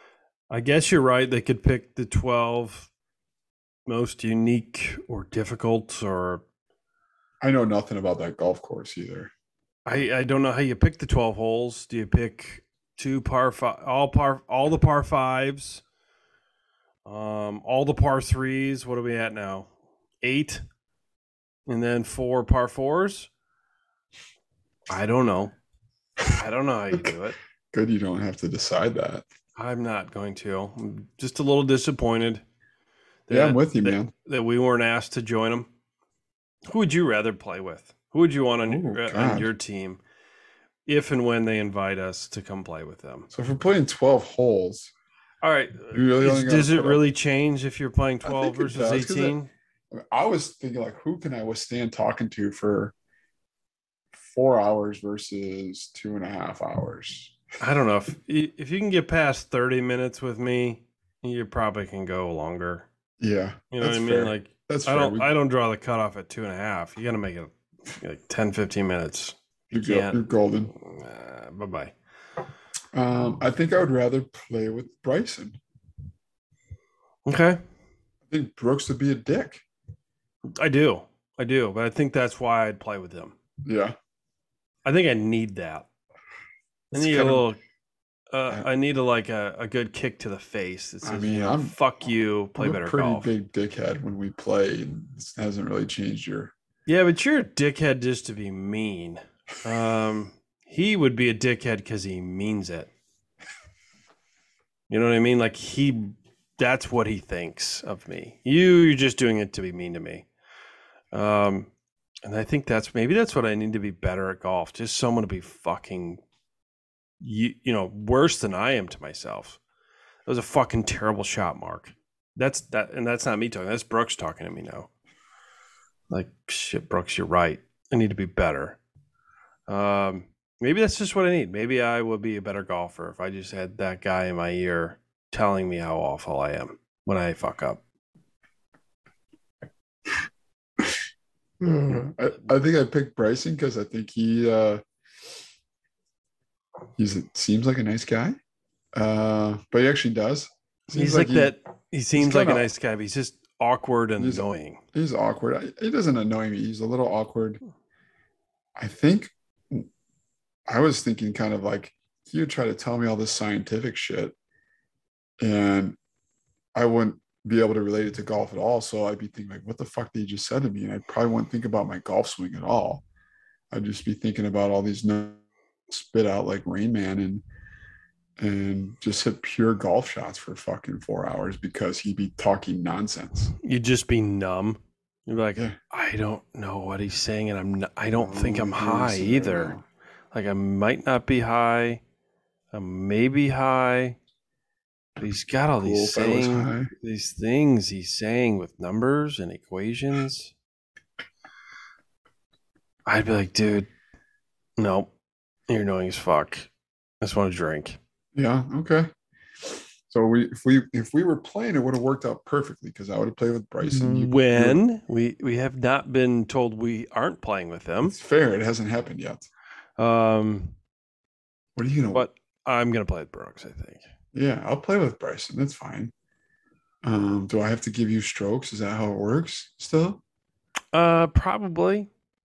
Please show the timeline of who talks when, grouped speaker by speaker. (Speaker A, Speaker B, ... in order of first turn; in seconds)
Speaker A: 0.5-2.9, 3.9-6.4, 9.9-15.8, 17.1-19.7, 20.2-20.6, 21.7-23.3, 24.9-25.5, 26.4-27.4, 29.6-32.4, 33.3-35.7, 36.7-40.0, 40.9-43.3, 45.4-49.5, 57.6-62.9, 63.7-70.2, 70.7-71.9, 77.3-77.6, 80.6-83.3, 84.8-85.9, 86.9-87.6, 88.3-93.3, 96.9-102.9, 104.9-110.3, 111.1-111.7, 112.2-116.2, 117.2-119.6, 120.3-124.9, 126.1-128.8, 129.7-137.8, 150.9-154.8, 183.6-189.8, 190.3-192.0, 192.7-194.2, 195.2-200.5, 203.1-203.9, 204.8-205.1, 205.7-206.7, 207.2-208.0, 213.8-218.2, 220.0-220.8, 222.1-224.1, 230.9-232.1
Speaker B: 7.4-9.3, 27.7-29.3, 33.3-34.1, 38.7-39.5, 43.3-44.9, 45.9-47.0, 48.2-49.4, 49.9-52.9, 54.1-57.4, 63.2-65.3, 69.7-70.7, 72.9-75.6, 78.3-79.6, 83.7-84.0, 86.9-87.5, 91.0-91.8, 92.6-96.5, 141.6-144.8, 147.0-148.4, 148.9-151.5, 152.2-152.7, 154.2-157.6, 158.8-159.9, 160.7-164.3, 165.4-166.0, 166.8-173.0, 173.7-177.4, 178.4-183.5, 188.1-189.8, 195.8-196.9, 208.3-209.1, 209.6-214.8, 218.1-219.5, 221.8-222.3, 224.3-226.1, 227.0-230.2